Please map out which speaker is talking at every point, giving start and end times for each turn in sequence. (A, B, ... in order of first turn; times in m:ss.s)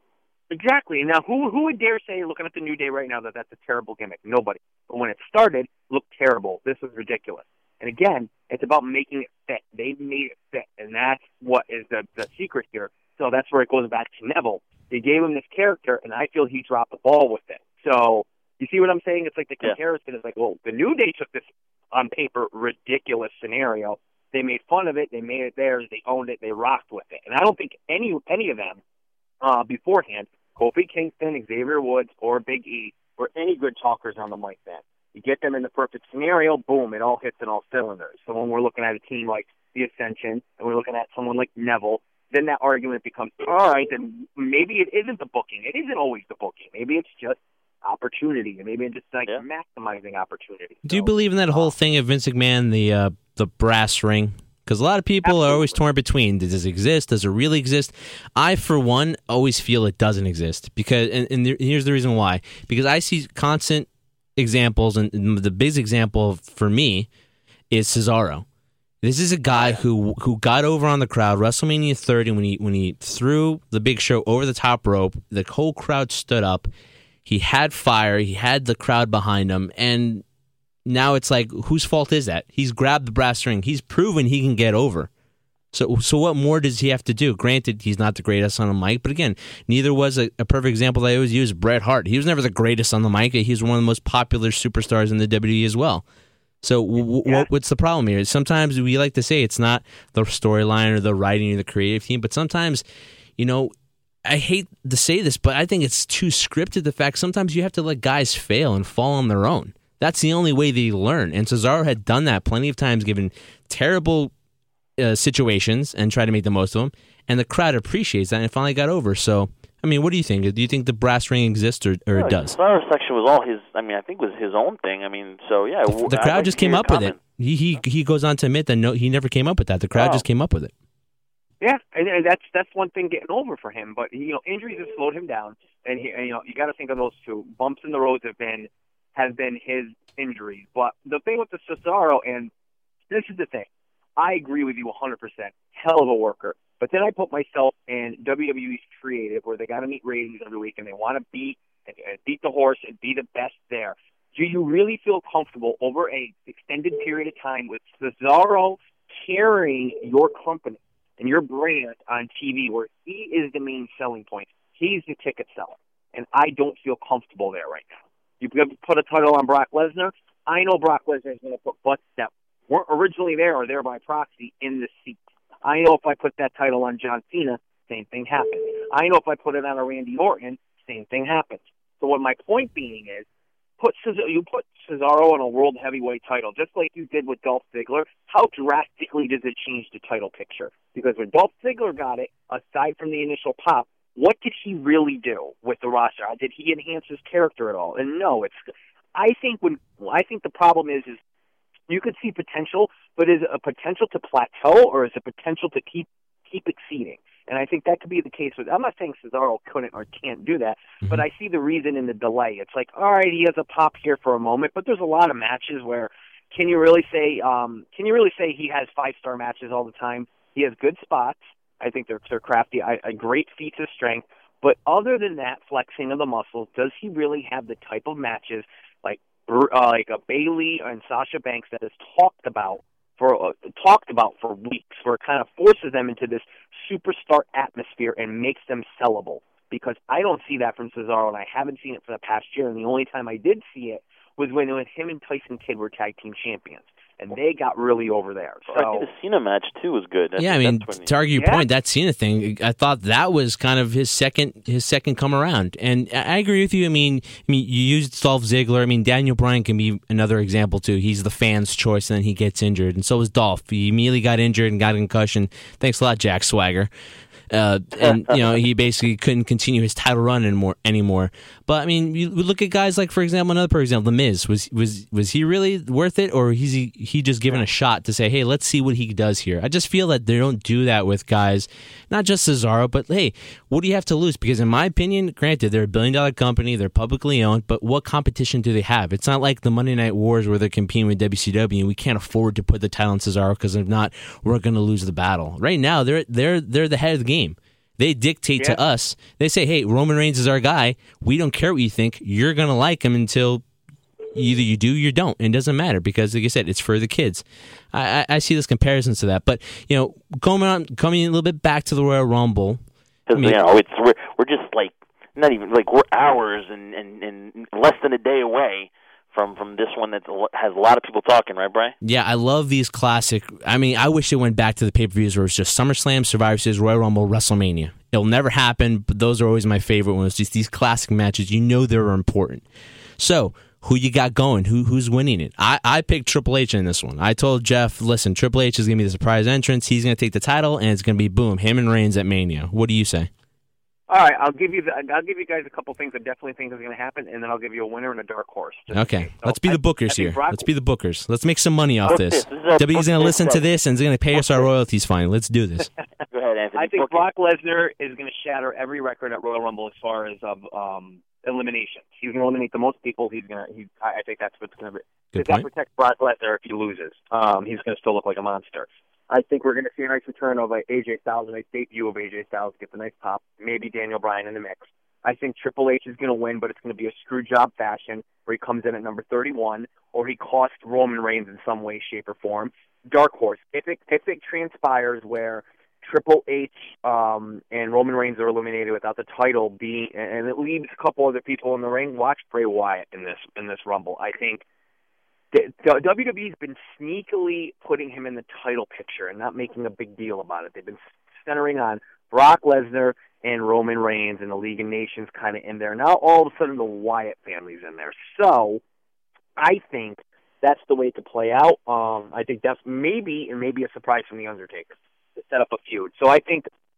0:00.5-0:28.8 A
0:29.4-0:51.7 A
0:50.9-1:07.1 B
0:55.2-0:55.8 A
1:07.7-1:08.4 B
1:09.0-1:16.7 B
1:09.5-1:09.8 C
1:17.2-1:20.2 B
1:20.8-1:25.1 B
1:25.7-1:36.0 B
1:36.6-1:42.8 B
1:43.4-1:43.7 B
1:44.2-1:54.3 B
1:55.0-2:02.6 B
2:02.1-2:07.2 C
2:05.9-2:10.7 B
2:09.9-2:10.2 A
2:11.6-2:22.5 A
2:23.1-3:03.2 A
3:03.8-3:21.2 A
3:21.9-4:09.0 A
4:08.7-4:11.1 C
4:10.4-4:26.9 B
4:11.4-4:11.6 A
4:27.5-5:03.6 B
4:28.0-4:28.4 C
5:04.3-5:12.8 B
5:13.3-5:21.9 C
5:22.0-5:32.6 B
5:33.2-5:43.3 B
5:44.1-5:50.6 A
5:48.9-5:55.9 B
5:52.1-5:53.6 C
5:56.3-5:57.2 C
5:56.8-6:34.6 A
6:05.3-6:05.7 B
6:35.5-6:48.8 A
6:49.6-6:56.7 A